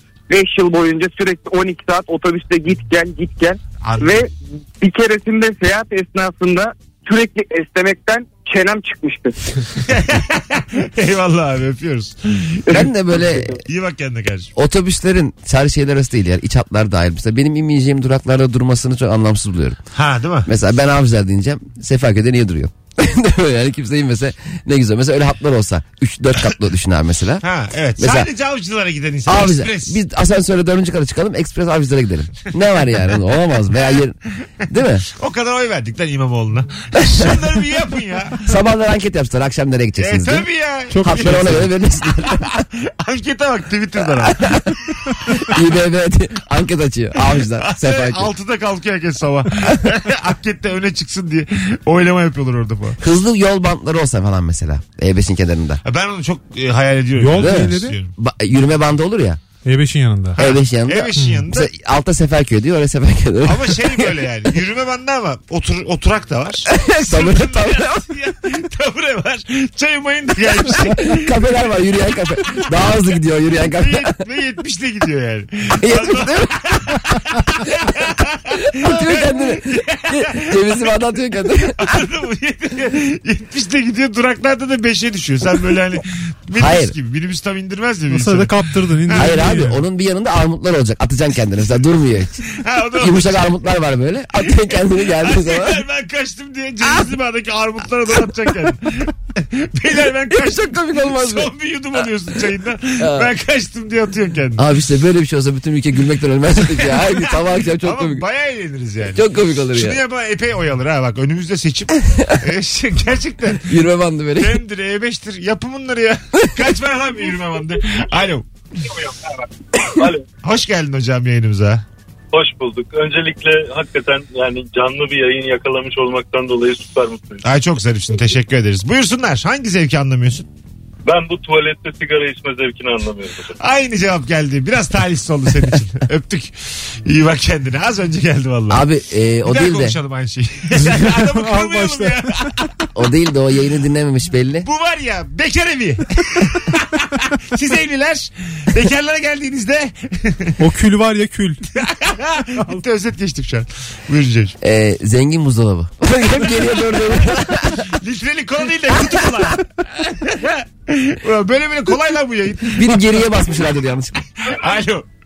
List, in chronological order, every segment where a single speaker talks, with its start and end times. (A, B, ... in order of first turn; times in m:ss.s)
0:00.3-0:09.4 A
0:03.8-0:04.2 B
0:09.9-0:14.5 B
0:12.7-0:13.6 C
0:14.6-0:19.8 C
0:19.9-0:20.5 B
0:20.5-0:27.4 C
0:27.4-0:30.0 B
0:28.0-0:28.3 C
0:29.3-0:34.2 C
0:33.8-0:34.0 B
0:34.7-0:35.1 C
0:35.2-0:38.5 B
0:37.0-0:37.4 C
0:38.4-0:40.5 C
0:40.0-0:41.7 B
0:40.9-0:41.7 D
0:41.0-0:42.6 C
0:42.2-0:44.6 B
0:44.2-0:44.7 C
0:45.4-0:48.3 C
0:47.6-0:53.0 B
0:53.0-0:55.8 C
0:55.8-0:58.1 B
0:57.2-0:58.0 D
0:57.4-0:59.4 C
0:59.6-1:00.4 D
1:00.4-1:01.7 B
1:00.4-1:04.1 C
1:03.4-1:11.4 B
1:06.7-1:08.0 C
1:10.7-1:14.1 C
1:12.6-1:13.0 B
1:13.6-1:20.9 B
1:15.8-1:17.0 C
1:18.7-1:22.0 C
1:21.7-1:28.6 B
1:26.6-1:27.0 C
1:28.1-1:29.8 D
1:29.1-1:29.5 B
1:29.1-1:32.4 C
1:32.6-1:33.6 B
1:33.0-1:35.8 C
1:34.4-1:44.6 B
1:40.3-1:41.5 C
1:43.0-1:43.3 C
1:44.6-1:48.2 C
1:46.8-1:53.8 B
1:49.1-1:50.0 C
1:52.1-1:52.4 C
1:53.6-1:54.6 C
1:54.4-1:58.5 B
2:00.0-2:00.2 E
2:00.4-2:01.8 B
2:02.3-2:07.4 E
2:07.4-2:10.5 B
2:11.0-2:13.6 E
2:13.6-2:18.9 B
2:18.7-2:20.0 C
2:19.4-2:22.6 B
2:20.8-2:22.6 D
2:23.0-2:24.7 C
2:24.6-2:30.6 B
2:30.6-2:31.7 D
2:31.8-2:34.6 B
2:34.6-2:37.9 C
2:37.4-2:43.4 B
2:42.7-2:44.2 C
2:44.4-2:45.1 B